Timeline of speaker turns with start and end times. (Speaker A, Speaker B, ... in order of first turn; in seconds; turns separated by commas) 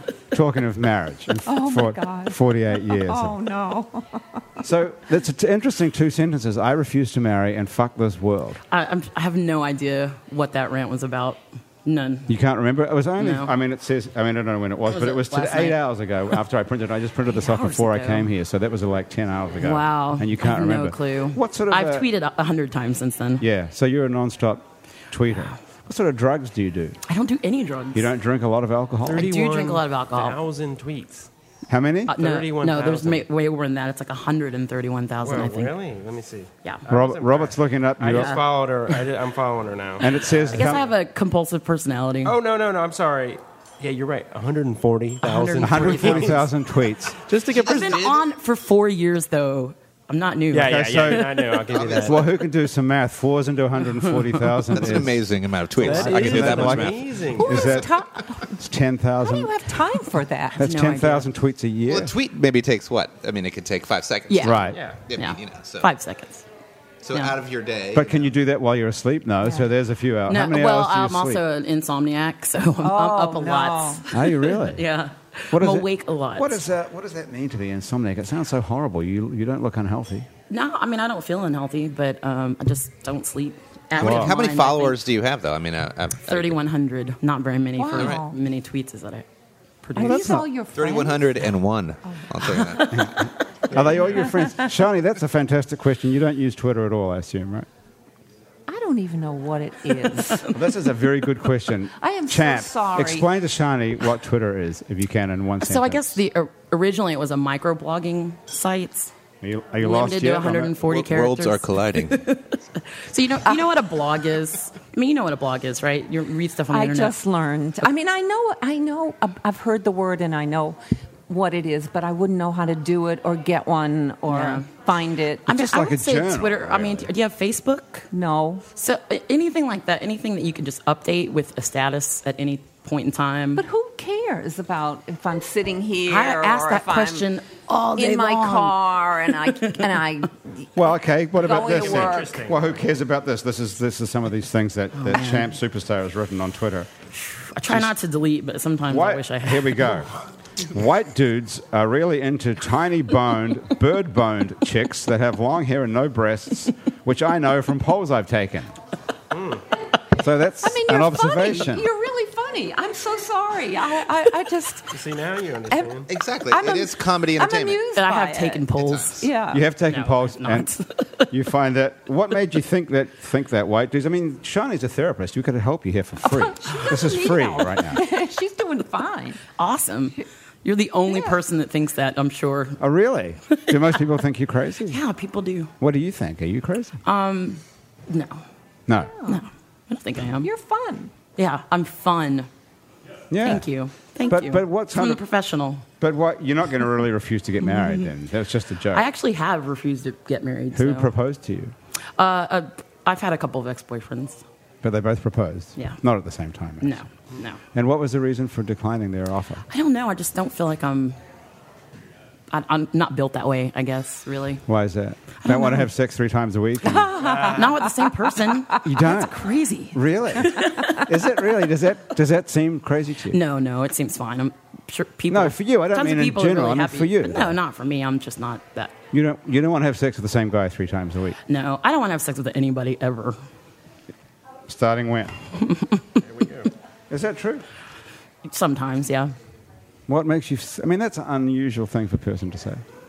Speaker A: 0.3-3.4, Speaker B: 1.5-4.6, Speaker A: 4.6-8.6, Speaker C: 8.7-12.3, Speaker A: 12.3-22.1, Speaker C: 13.2-13.5, Speaker C: 14.9-15.8, Speaker C: 17.3-18.3, Speaker C: 19.6-23.4, Speaker A: 23.4-27.0, Speaker C: 27.1-28.1, Speaker A: 27.9-29.3, Speaker D: 29.1-31.3, Speaker C: 29.1-30.4, Speaker A: 31.7-32.2, Speaker C: 32.1-35.8, Speaker D: 32.2-33.3, Speaker D: 35.2-40.8, Speaker A: 36.9-38.4, Speaker C: 38.1-38.4, Speaker A: 40.0-40.9, Speaker C: 40.5-42.4, Speaker D: 42.2-46.5, Speaker C: 45.2-46.4, Speaker A: 45.6-47.2, Speaker D: 47.1-48.0, Speaker E: 47.5-48.2, Speaker C: 47.5-51.6, Speaker D: 50.5-52.3, Speaker A: 50.6-55.2, Speaker E: 51.7-52.3, Speaker E: 54.7-57.9, Speaker A: 55.8-57.9, Speaker D: 55.8-57.8, Speaker B: 57.4-58.5, Speaker A: 58.4-59.5, Speaker B: 59.2-60.6, Speaker A: 60.6-62.1, Speaker C: 60.6-61.3, Speaker E: 61.9-65.9, Speaker C: 64.3-66.4, Speaker A: 64.4-64.8, Speaker D: 64.7-65.0, Speaker E: 67.0-68.3, Speaker A: 67.9-71.4, Speaker C: 70.3-76.6, Speaker B: 72.6-74.1, Speaker A: 74.1-74.8, Speaker A: 75.5-80.3, Speaker C: 80.5-85.0, Speaker A: 83.9-84.4, Speaker E: 84.0-86.6, Speaker C: 86.2-89.3, Speaker B: 87.8-88.4, Speaker E: 87.9-88.2, Speaker C: 89.8-90.4, Speaker A: 90.0-90.5, Speaker B: 90.0-91.4, Speaker E: 90.8-93.2, Speaker B: 92.1-93.0, Speaker A: 92.9-97.7, Speaker B: 94.0-94.6, Speaker B: 98.7-100.5, Speaker C: 100.2-100.5, Speaker A: 100.5-106.2, Speaker B: 102.0-103.3, Speaker C: 105.6-109.1, Speaker A: 109.4-110.8, Speaker C: 109.8-117.2, Speaker E: 110.8-112.2, Speaker B: 113.4-113.7, Speaker B: 116.7-125.5, Speaker C: 124.3-124.7, Speaker C: 125.5-128.1, Speaker A: 125.5-127.1, Speaker B: 128.1-128.7, Speaker C: 128.8-133.6, Speaker B: 133.6-137.3, Speaker C: 136.1-139.9, Speaker B: 137.9-140.7, Speaker A: 140.8-146.9, Speaker B: 141.3-142.5, Speaker D: 141.4-142.9, Speaker C: 145.0-145.5, Speaker C: 147.2-150.0, Speaker A: 147.7-147.9, Speaker A: 148.9-150.1, Speaker A: 150.6-158.7, Speaker D: 159.3-159.6, Speaker A: 160.1-161.9, Speaker B: 160.6-165.0, Speaker D: 164.9-166.1, Speaker B: 165.7-169.6, Speaker E: 166.1-167.8, Speaker C: 167.9-169.3, Speaker A: 169.5-170.7, Speaker C: 169.9-171.3, Speaker A: 171.3-178.0, Speaker B: 176.3-179.4, Speaker C: 179.6-182.8, Speaker B: 181.1-181.3, Speaker A: 182.8-185.0, Speaker C: 184.9-185.7, Speaker A: 185.8-187.0, Speaker C: 187.0-188.4, Speaker A: 188.9-189.1, Speaker B: 189.0-189.4, Speaker C: 189.3-190.5, Speaker B: 190.4-191.1, Speaker C: 191.4-192.5, Speaker A: 193.3-193.6, Speaker C: 193.4-195.8, Speaker A: 194.3-195.2, Speaker A: 196.0-199.1, Speaker C: 197.6-198.1, Speaker C: 198.9-201.1, Speaker A: 200.7-201.7, Speaker C: 202.2-204.4, Speaker A: 204.8-206.9, Speaker C: 206.8-207.6, Speaker A: 207.7-209.6, Speaker C: 209.7-211.2, Speaker C: 212.5-214.6, Speaker A: 214.7-217.3, Speaker C: 215.5-215.8, Speaker B: 216.9-218.4, Speaker D: 217.3-217.6, Speaker C: 217.3-221.5, Speaker A: 218.8-223.4, Speaker C: 223.3-229.0, Speaker A: 225.3-227.6, Speaker A: 229.1-231.4, Speaker C: 231.5-233.4, Speaker A: 234.7-235.4, Speaker C: 235.7-235.9, Speaker D: 236.3-236.7, Speaker A: 237.1-237.6, Speaker C: 238.4-239.3, Speaker A: 240.1-242.8